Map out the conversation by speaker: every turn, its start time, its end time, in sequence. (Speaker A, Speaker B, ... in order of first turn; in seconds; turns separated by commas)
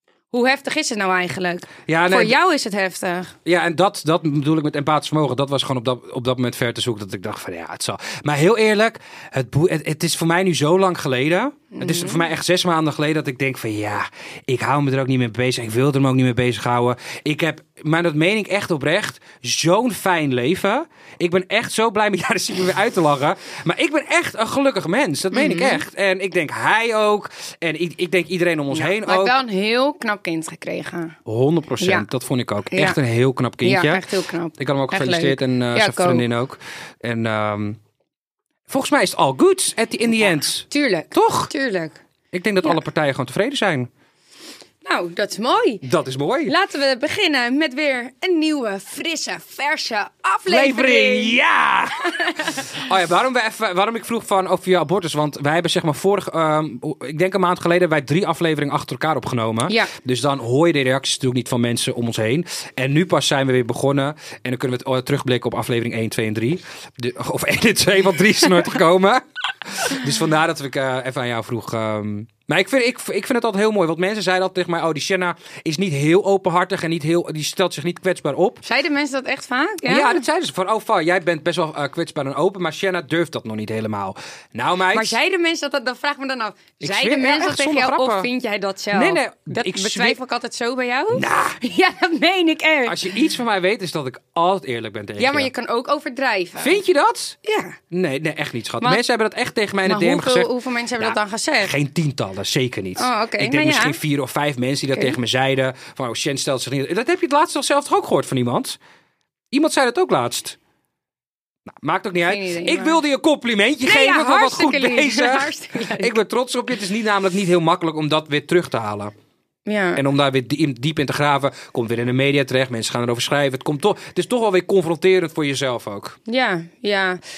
Speaker A: 0.3-3.4, Speaker B: 1.9-2.4, Speaker B: 3.5-29.4, Speaker A: 11.7-12.3, Speaker A: 25.3-25.8, Speaker A: 28.7-31.2, Speaker B: 31.3-34.0, Speaker A: 31.8-32.1, Speaker A: 32.7-33.0, Speaker A: 33.6-36.3, Speaker B: 34.6-37.8, Speaker B: 38.7-41.5, Speaker A: 40.7-42.0, Speaker B: 42.3-43.9, Speaker A: 44.9-45.8, Speaker B: 45.8-46.5, Speaker A: 46.5-51.4, Speaker B: 50.5-78.6, Speaker A: 52.0-52.7, Speaker A: 78.6-80.2, Speaker B: 79.9-85.2, Speaker A: 84.9-93.1, Speaker B: 86.8-88.3, Speaker B: 88.9-90.2, Speaker B: 91.1-91.6, Speaker B: 92.9-95.5, Speaker A: 95.2-96.8, Speaker B: 96.6-97.4, Speaker A: 97.4-97.8, Speaker B: 97.9-108.8, Speaker A: 99.8-101.7, Speaker A: 103.0-104.0, Speaker B: 109.5-110.6, Speaker B: 111.7-119.1, Speaker A: 112.2-113.0, Speaker A: 113.8-116.2, Speaker A: 119.7-120.0, Speaker B: 120.0-126.2, Speaker A: 126.3-127.2